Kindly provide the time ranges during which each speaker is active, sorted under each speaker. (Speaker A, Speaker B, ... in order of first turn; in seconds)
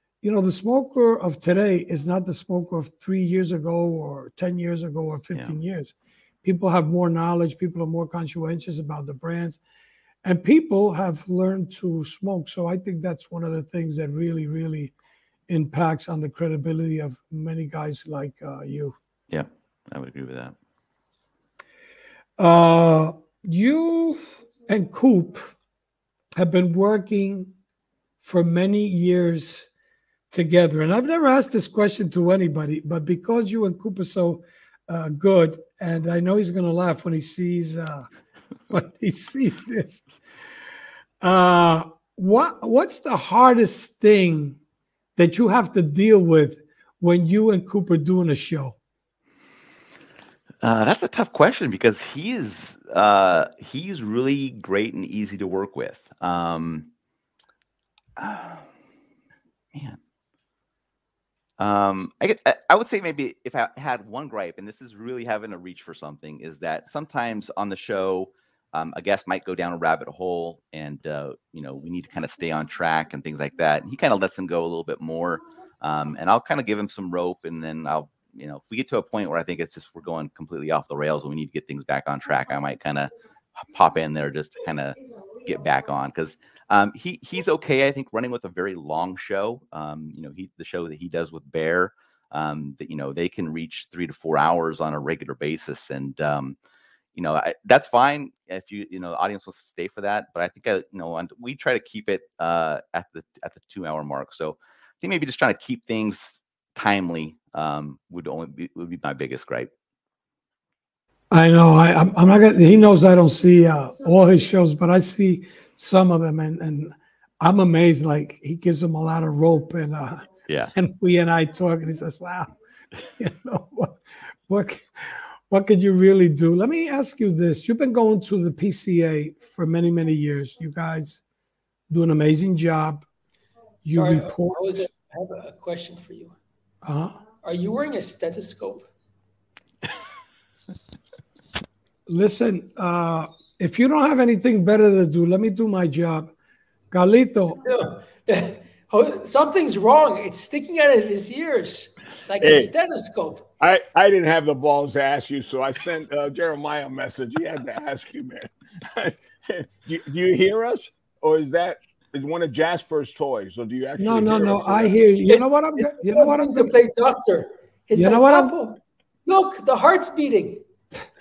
Speaker A: 0.2-9.6, 10.2-14.9, 15.5-18.9, 22.4-25.5, 26.3-27.5, 28.2-29.7, 30.3-38.1, 38.7-40.0, 41.2-44.6, 45.1-48.8, 111.3-122.5, 123.2-131.2, 131.9-133.1, 133.8-134.9, 136.8-137.2, 142.1-146.3, 146.9-147.6, 164.0-166.7, 167.9-168.6
Speaker B: 19.3-20.5, 50.6-56.9, 58.2-58.7, 59.7-60.0, 61.6-96.6, 97.2-109.7, 120.5-120.7
Speaker C: 133.9-136.3, 137.4-138.9, 147.6-153.5, 165.8-170.6
Speaker D: 152.4-152.7, 153.6-164.9